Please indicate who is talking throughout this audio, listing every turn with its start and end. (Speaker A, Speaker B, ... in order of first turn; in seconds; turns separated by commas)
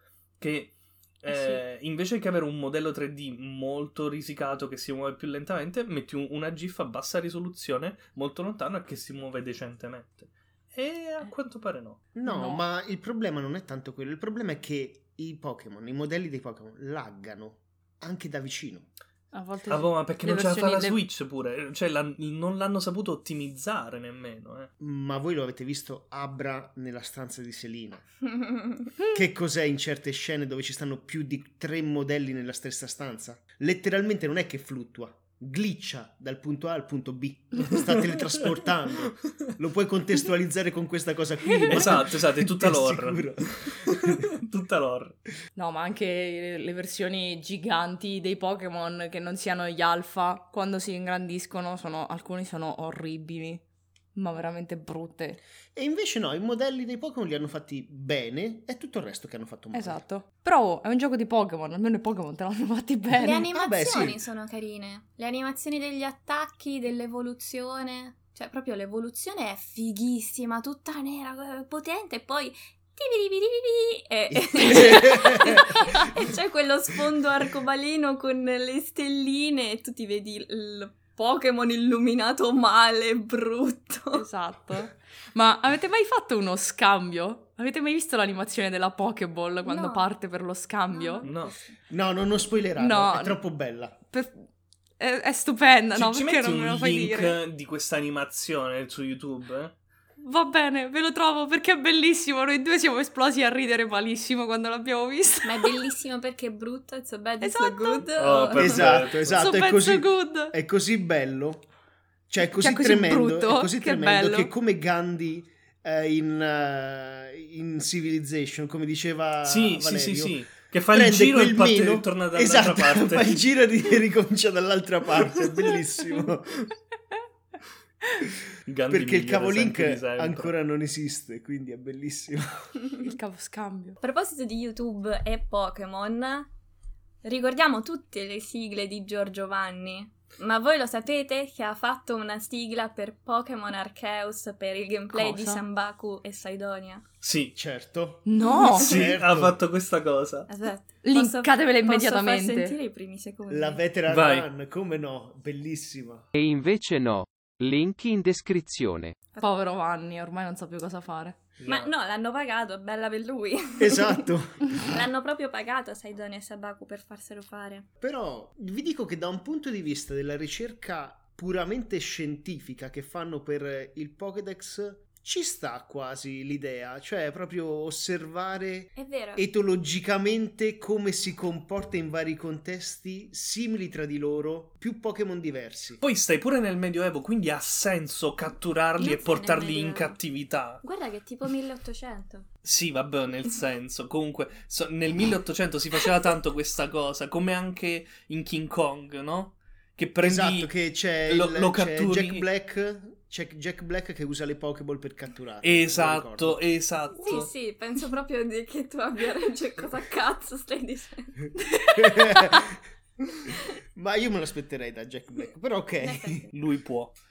Speaker A: 0.4-12.0, Speaker B: 1.3-1.6, Speaker C: 12.1-18.9, Speaker B: 12.2-12.6, Speaker B: 19.3-21.0, Speaker A: 19.7-24.7, Speaker C: 24.8-28.0, Speaker D: 28.4-28.7, Speaker C: 29.1-44.2, Speaker A: 41.7-45.2, Speaker B: 45.5-53.6, Speaker B: 54.1-55.4, Speaker C: 55.7-60.0, Speaker B: 59.7-63.5, Speaker D: 63.1-84.2, Speaker C: 63.5-64.2, Speaker C: 74.3-76.1, Speaker B: 84.1-91.3, Speaker D: 89.6-90.1, Speaker D: 90.9-91.5, Speaker A: 91.2-91.5, Speaker C: 91.9-94.0, Speaker B: 92.8-93.4, Speaker B: 94.1-94.4, Speaker B: 95.0-97.4, Speaker A: 95.9-99.7, Speaker B: 100.2-105.8, Speaker D: 105.4-109.0, Speaker B: 107.4-108.1, Speaker A: 108.2-109.5, Speaker C: 108.5-111.6, Speaker B: 109.3-110.5, Speaker C: 112.3-120.4, Speaker B: 112.5-114.5, Speaker A: 119.4-123.4, Speaker C: 120.9-126.5, Speaker A: 128.7-130.5, Speaker C: 128.9-132.8, Speaker B: 133.0-134.0, Speaker D: 134.0-136.5, Speaker D: 137.2-147.0, Speaker B: 145.1-145.6, Speaker A: 147.2-147.5, Speaker C: 147.5-149.6, Speaker B: 148.2-148.9, Speaker A: 148.7-150.5, Speaker D: 150.5-153.8, Speaker B: 151.0-152.8, Speaker C: 153.5-156.3, Speaker A: 154.1-154.4, Speaker E: 156.3-159.1, Speaker B: 159.4-161.4, Speaker A: 161.6-161.9, Speaker D: 161.7-167.9, Speaker C: 163.8-164.9, Speaker C: 168.0-186.0, Speaker D: 179.0-179.4, Speaker A: 186.0-190.8, Speaker D: 189.0-190.2, Speaker D: 190.8-192.4, Speaker A: 192.6-200.7, Speaker C: 200.2-206.6, Speaker A: 201.3-202.4, Speaker A: 205.6-207.5, Speaker D: 207.2-211.5, Speaker C: 211.9-212.8, Speaker C: 213.9-216.4, Speaker D: 216.0-216.5, Speaker A: 216.5-217.1